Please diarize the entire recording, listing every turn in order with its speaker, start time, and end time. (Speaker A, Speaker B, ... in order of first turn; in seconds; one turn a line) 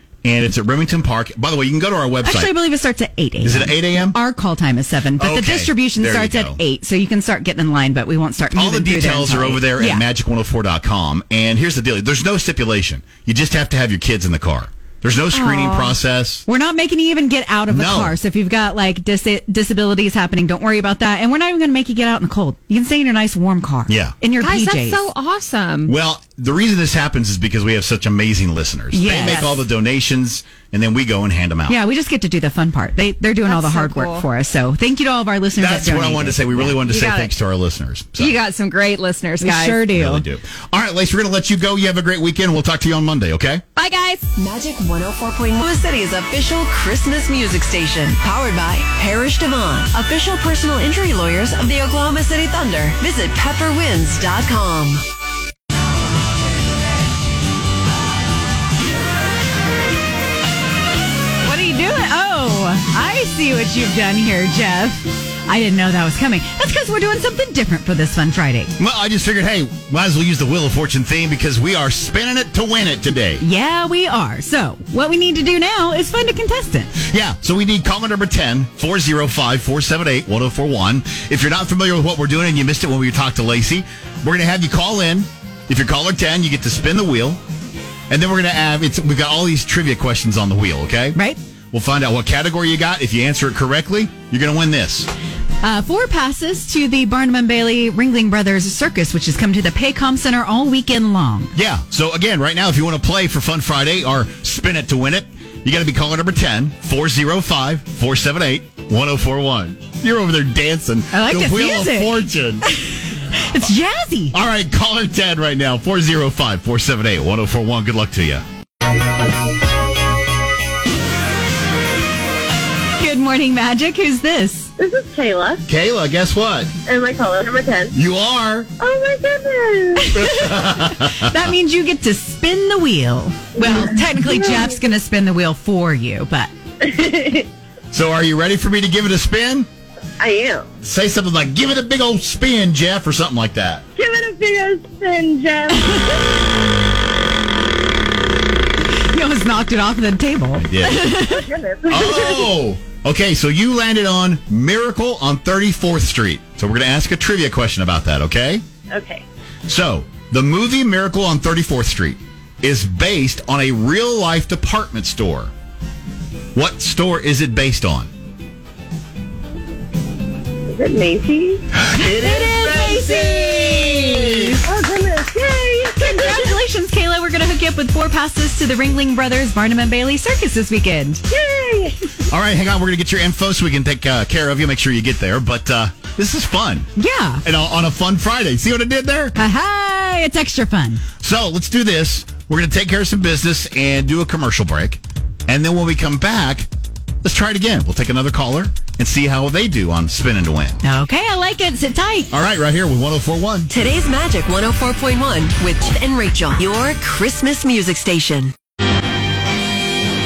Speaker A: 0.2-2.5
Speaker B: 2.2-10.0
Speaker A: 3.4-4.2
Speaker A: 5.2-6.6
Speaker A: 8.5-16.4
Speaker C: 15.3-15.9
Speaker B: 16.5-25.1
Speaker A: 17.7-18.1
Speaker A: 23.9-24.1
Speaker C: 24.4-25.9
Speaker A: 25.9-31.8
Speaker B: 28.9-29.6
Speaker B: 31.7-36.8
Speaker C: 33.5-34.2
Speaker A: 35.6-38.4
Speaker C: 36.8-37.3
Speaker C: 38.2-39.9
Speaker B: 39.4-40.2
Speaker A: 39.9-43.6
Speaker C: 43.8-44.2
Speaker D: 44.4-55.0
Speaker B: 61.4-68.7
Speaker A: 68.8-73.4
Speaker B: 73.4-76.9
Speaker A: 77.0-87.4
Speaker A: 88.1-91.2
Speaker A: 91.7-95.1
Speaker B: 95.6-101.5
Speaker A: 101.5-112.6
Speaker B: 111.1-112.7
Speaker B: 113.3-114.3
Speaker A: 114.3-118.4
Speaker B: 123.0-124.7
Speaker E: 124.8-125.6
Speaker A: 125.7-126.7
Speaker E: 126.9-127.9
Speaker A: 127.9-128.7
Speaker E: 128.8-130.1
Speaker B: 130.0-136.5
Speaker A: 130.1-131.4
Speaker E: 133.6-134.7
Speaker E: 136.8-137.5
Speaker A: 137.9-139.7
Speaker E: 140.2-140.7
Speaker A: 140.8-143.8
Speaker E: 143.9-146.2
Speaker B: 149.1-151.5
Speaker A: 150.6-151.2
Speaker E: 151.3-152.5
Speaker A: 151.9-158.6
Speaker E: 158.9-159.2
Speaker A: 159.7-165.5
Speaker A: 166.5-168.1
Speaker E: 170.7-171.7
Speaker A: 171.8-174.6
Speaker B: 171.9-174.6
Speaker E: 174.6-176.6
Speaker B: 176.0-181.2
Speaker E: 181.3-181.9
Speaker A: 182.3-186.9
Speaker B: 187.0-187.4
Speaker A: 187.4-189.3
Speaker B: 189.4-191.0
Speaker A: 191.2-196.7
Speaker A: 197.2-200.8
Speaker B: 200.8-202.3
Speaker A: 202.3-203.7
Speaker D: 203.7-208.5